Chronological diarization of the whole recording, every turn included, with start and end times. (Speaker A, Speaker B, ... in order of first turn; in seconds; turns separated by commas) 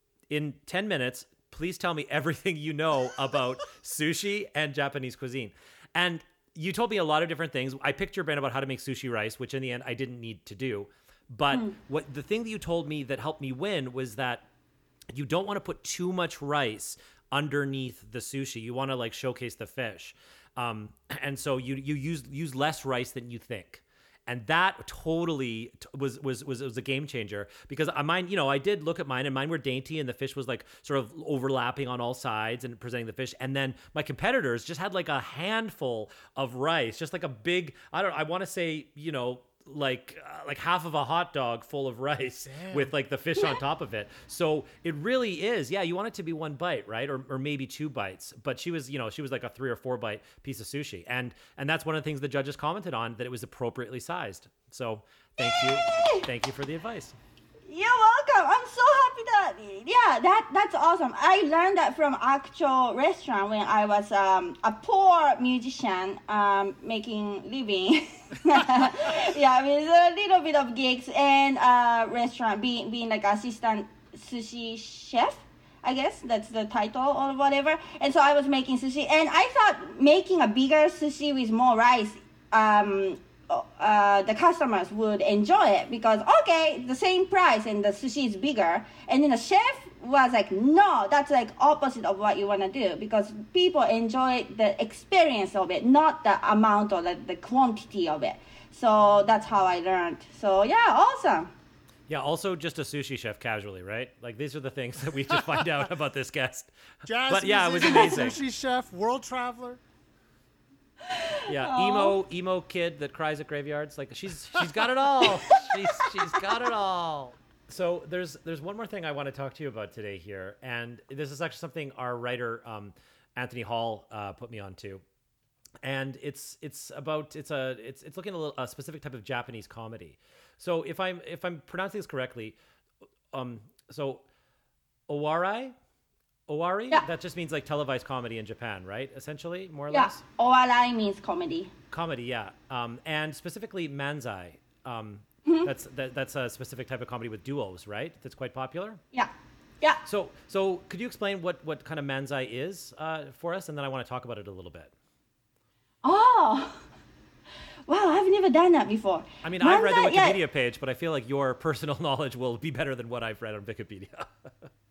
Speaker A: 0.3-14.5, Speaker A: 15.1-57.2, Speaker B: 42.4-42.9, Speaker C: 55.4-56.2, Speaker C: 57.7-101.5, Speaker A: 102.1-106.7, Speaker B: 107.0-109.8, Speaker A: 107.3-108.4, Speaker C: 111.0-112.1, Speaker A: 111.5-125.0, Speaker C: 115.5-116.1, Speaker A: 125.8-132.6, Speaker A: 133.3-134.2, Speaker A: 135.1-135.7, Speaker A: 136.5-140.2, Speaker C: 139.9-141.7, Speaker A: 141.9-149.0, Speaker C: 145.4-145.7, Speaker A: 150.0-154.9, Speaker C: 156.0-156.8, Speaker C: 157.9-160.4, Speaker A: 159.4-164.7